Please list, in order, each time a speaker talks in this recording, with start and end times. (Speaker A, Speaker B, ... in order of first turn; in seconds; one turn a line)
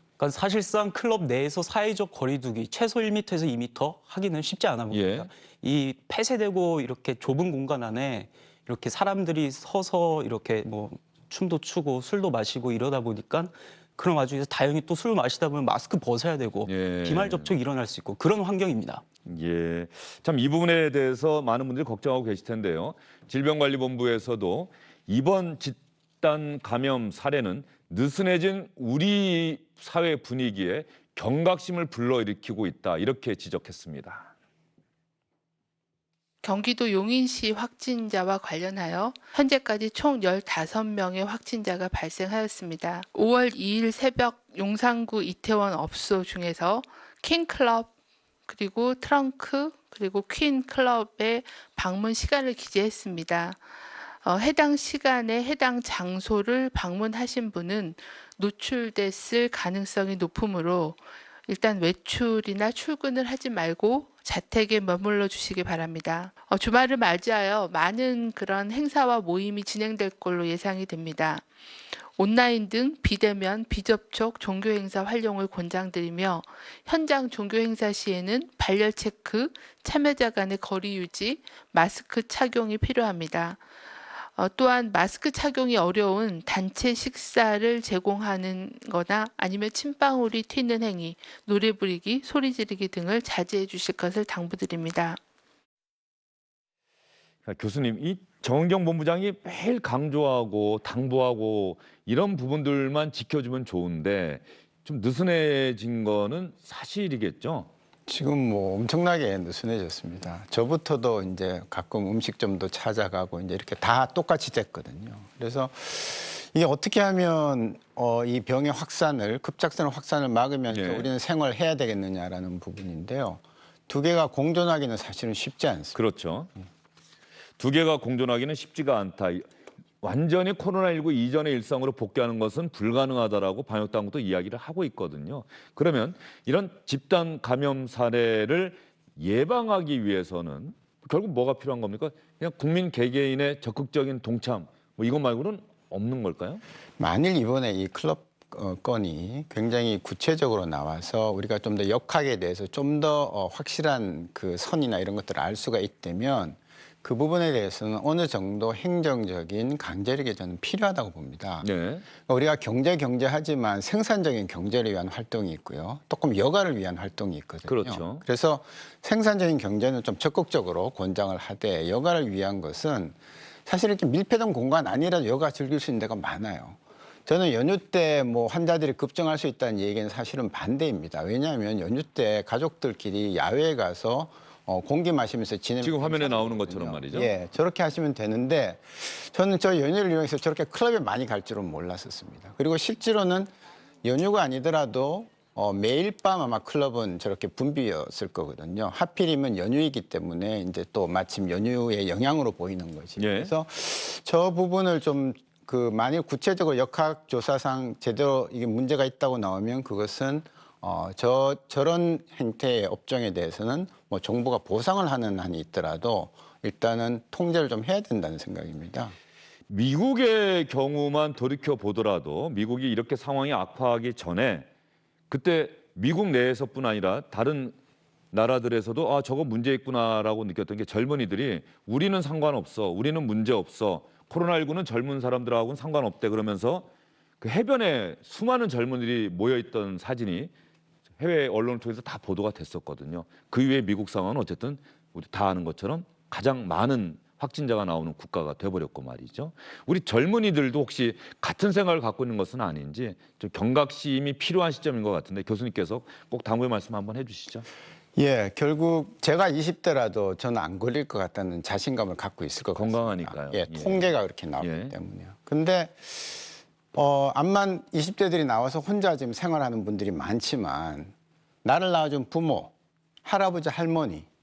Speaker A: 0.2-19.0
Speaker B: 4.9-5.3
Speaker B: 16.7-17.5
Speaker B: 19.3-34.3
Speaker C: 36.4-47.9
Speaker C: 48.5-53.6
Speaker C: 54.2-71.5
Speaker C: 72.2-83.6
Speaker C: 84.3-95.2
Speaker B: 97.5-107.7
Speaker D: 108.1-126.0
Speaker B: 120.7-121.1
Speaker B: 125.9-126.5
Speaker B: 127.6-129.5
Speaker B: 130.0-146.6
Speaker D: 147.0-161.7
Speaker B: 161.6-162.1
Speaker D: 162.2-193.5
Speaker B: 167.7-168.2
Speaker B: 185.8-187.3
Speaker D: 194.0-219.1
Speaker B: 203.2-203.5
Speaker B: 219.7-224.7
Speaker B: 225.3-227.8
Speaker B: 228.3-236.9
Speaker B: 237.4-240.5
Speaker B: 241.2-257.7
Speaker D: 258.2-271.1
Speaker B: 262.8-264.9
Speaker D: 271.6-272.7
Speaker D: 273.2-274.3